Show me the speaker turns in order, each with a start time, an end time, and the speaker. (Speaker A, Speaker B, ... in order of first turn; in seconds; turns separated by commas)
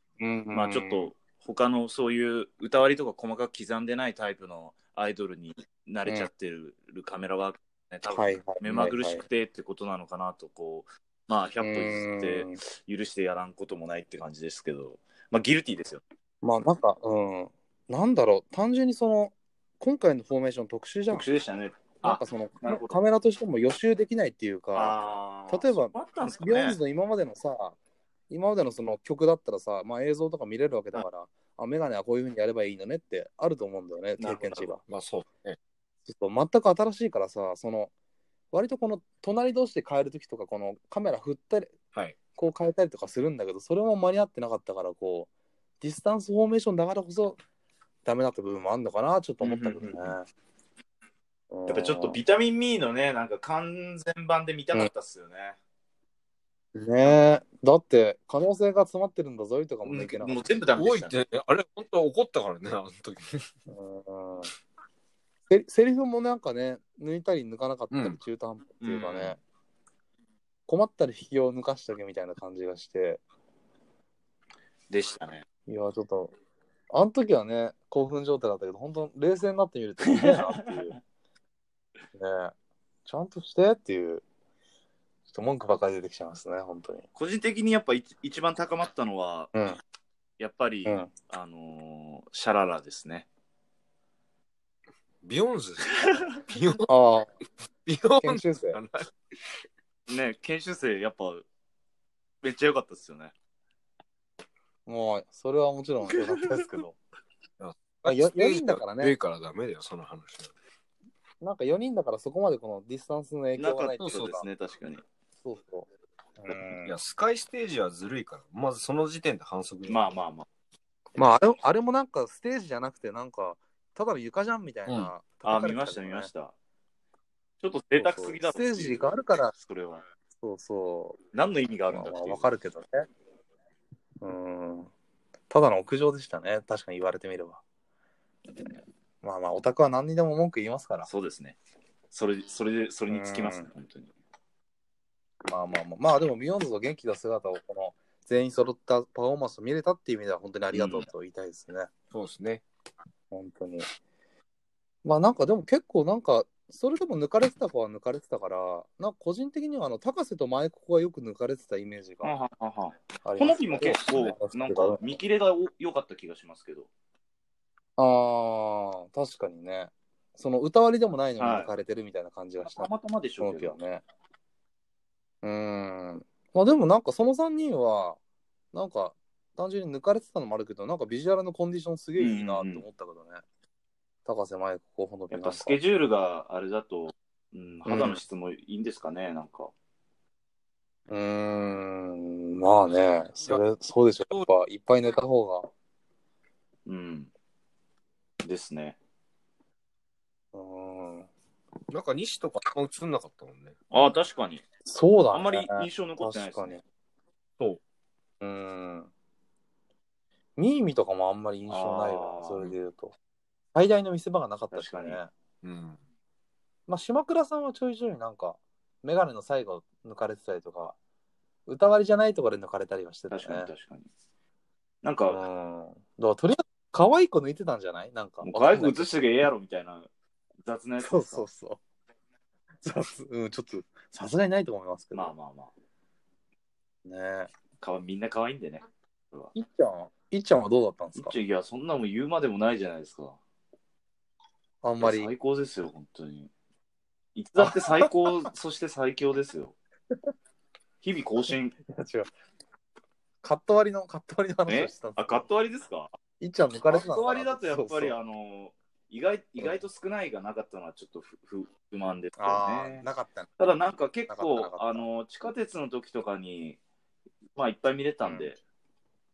Speaker A: 0.2-1.1, Speaker B: 0.5-16.0, Speaker A: 8.1-9.2, Speaker A: 11.6-12.6, Speaker A: 16.4-21.2, Speaker B: 21.1-23.0, Speaker A: 22.0-24.9, Speaker B: 24.7-26.8, Speaker A: 25.5-27.8, Speaker A: 28.3-34.8, Speaker B: 34.2-34.7, Speaker C: 34.9-35.6, Speaker A: 36.1-37.9, Speaker A: 38.5-41.8, Speaker C: 41.9-42.2, Speaker A: 42.3-45.3, Speaker A: 45.8-47.4, Speaker A: 48.0-50.3, Speaker B: 49.4-50.1, Speaker A: 51.5-52.2, Speaker B: 51.7-55.6, Speaker A: 56.7-60.5, Speaker B: 59.8-61.1, Speaker C: 60.8-63.5, Speaker A: 63.7-64.5, Speaker A: 65.5-69.4, Speaker C: 67.9-68.2, Speaker B: 68.8-69.4, Speaker A: 70.7-73.2, Speaker B: 74.9-75.4, Speaker A: 75.7-76.3, Speaker A: 76.9-81.0, Speaker B: 80.1-80.9, Speaker A: 82.2-82.5, Speaker A: 83.0-84.2, Speaker A: 85.3-87.0, Speaker B: 87.1-89.5, Speaker A: 89.5-89.8, Speaker B: 90.4-93.3, Speaker C: 95.2-96.9, Speaker B: 95.9-96.4, Speaker A: 96.9-97.3, Speaker C: 97.8-99.1, Speaker A: 98.2-98.8, Speaker B: 100.1-101.4, Speaker B: 102.4-103.3, Speaker A: 104.8-107.0, Speaker C: 107.6-110.5, Speaker A: 108.0-109.2, Speaker A: 111.4-114.5, Speaker B: 113.6-115.0, Speaker C: 114.0-114.4, Speaker A: 115.4-115.9, Speaker A: 116.4-117.0, Speaker C: 116.8-120.2, Speaker B: 119.9-120.5, Speaker A: 121.2-126.3, Speaker C: 124.9-125.1, Speaker B: 125.4-126.5, Speaker B: 127.6-130.0, Speaker A: 128.0-129.5, Speaker A: 130.4-131.2, Speaker B: 131.3-132.5, Speaker A: 131.9-133.1, Speaker A: 134.2-134.9, Speaker A: 135.5-137.6, Speaker A: 139.2-141.1, Speaker B: 141.1-141.6, Speaker B: 142.1-144.1, Speaker A: 143.1-143.7, Speaker A: 145.5-151.9, Speaker B: 150.7-151.1, Speaker C: 152.1-152.6, Speaker A: 153.3-153.8, Speaker A: 155.0-162.3, Speaker B: 162.2-166.9, Speaker A: 163.2-165.2, Speaker A: 168.0-172.9, Speaker B: 171.4-171.7, Speaker B: 172.6-173.8, Speaker A: 173.4-174.0, Speaker A: 175.4-178.2, Speaker A: 178.7-183.4, Speaker B: 182.2-182.8, Speaker A: 184.2-185.8, Speaker B: 185.3-189.7, Speaker A: 187.9-188.2, Speaker A: 191.1-195.7, Speaker B: 196.8-197.3, Speaker B: 198.4-199.0, Speaker A: 200.5-201.3, Speaker C: 201.9-203.7, Speaker B: 203.9-204.6, Speaker A: 204.8-206.8, Speaker B: 205.3-206.8, Speaker A: 208.4-209.1, Speaker A: 210.6-213.1, Speaker B: 211.7-212.6, Speaker A: 213.7-215.3, Speaker B: 214.7-215.2, Speaker C: 215.6-216.0, Speaker A: 216.9-220.9, Speaker A: 221.7-223.7, Speaker B: 223.3-224.1, Speaker B: 225.0-225.4, Speaker A: 225.3-229.2, Speaker B: 228.4-230.1, Speaker B: 230.6-231.4, Speaker A: 231.0-231.8, Speaker A: 232.8-235.3, Speaker B: 235.1-235.7, Speaker A: 237.1-237.5, Speaker B: 237.8-239.5, Speaker A: 239.5-241.3, Speaker B: 241.2-243.4, Speaker A: 244.8-245.3, Speaker B: 245.0-246.5, Speaker B: 247.3-249.7, Speaker A: 247.6-248.1, Speaker B: 251.0-251.8, Speaker A: 251.9-252.3, Speaker A: 253.4-255.5, Speaker B: 254.7-256.1, Speaker A: 256.4-258.1, Speaker B: 256.9-263.1, Speaker A: 262.4-263.5, Speaker B: 263.6-266.8, Speaker A: 264.3-265.0, Speaker B: 267.6-268.6, Speaker A: 268.2-268.5